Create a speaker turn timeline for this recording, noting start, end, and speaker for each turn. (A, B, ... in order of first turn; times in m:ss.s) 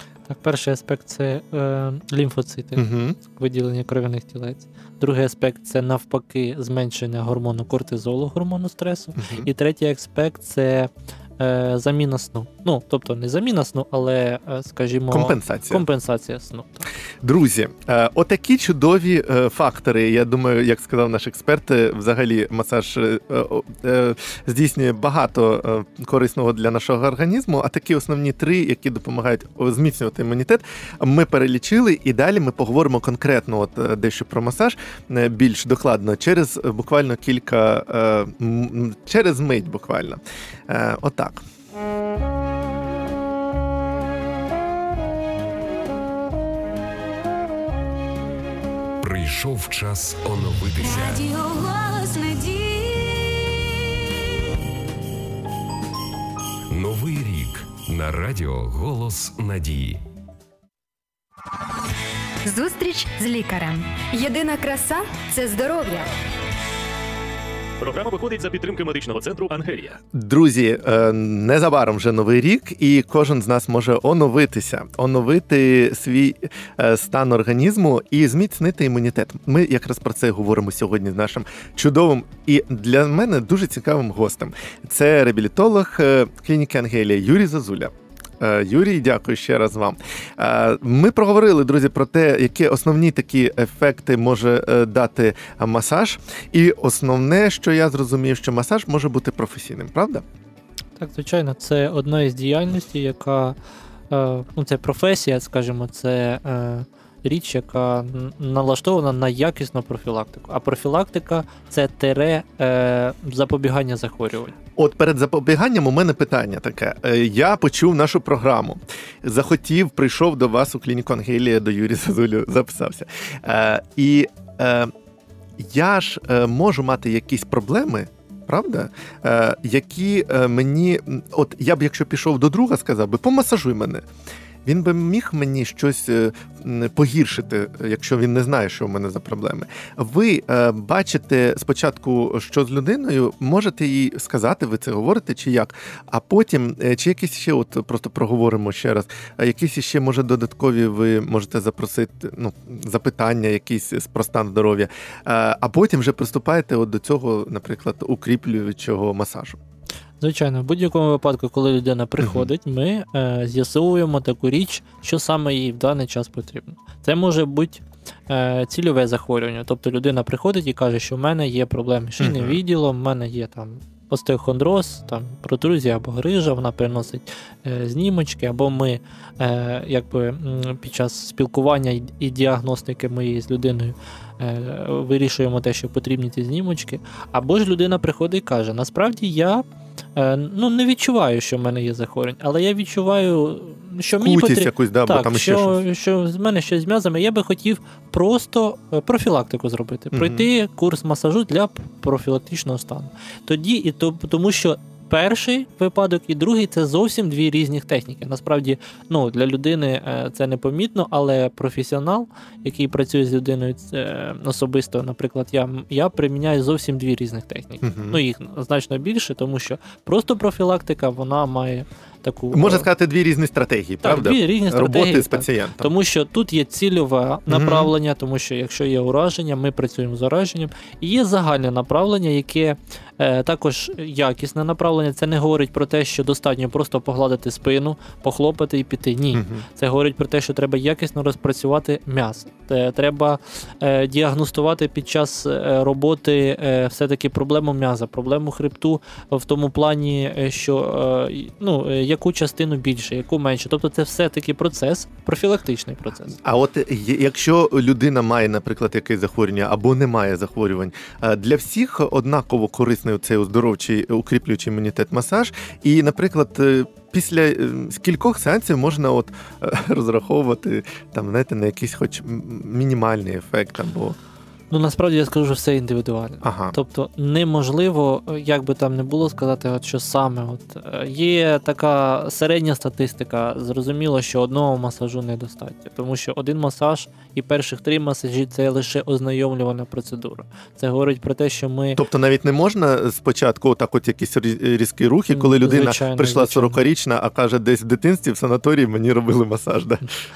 0:00.3-0:16.9 A
0:02.8-0:03.2 B
0:09.2-0:09.5 B
0:15.1-0:15.8 B
0:17.2-0:41.4 B
0:49.0-0:51.2 C
0:50.8-0:53.8 D
0:56.7-1:00.0 C
1:02.4-1:06.1 E
1:07.8-1:10.0 F
1:10.1-1:40.2 B
1:41.0-1:43.6 A
1:44.1-1:54.5 A
1:54.8-2:04.9 B
2:05.6-2:14.0 B
2:14.6-2:39.6 B
2:40.2-3:09.6 A
2:42.2-2:42.5 B
2:52.2-2:52.6 B
3:10.2-3:42.9 A
3:14.2-3:15.8 B
3:20.1-3:20.5 B
3:37.8-3:38.2 B
3:42.5-3:45.9 B
3:44.0-4:16.4 A
3:47.5-3:47.9 B
3:59.3-3:59.6 B
4:16.4-4:34.2 B
4:34.7-4:52.0 A
4:36.4-4:36.7 B
4:52.0-5:00.0 B
4:55.3-4:56.8 A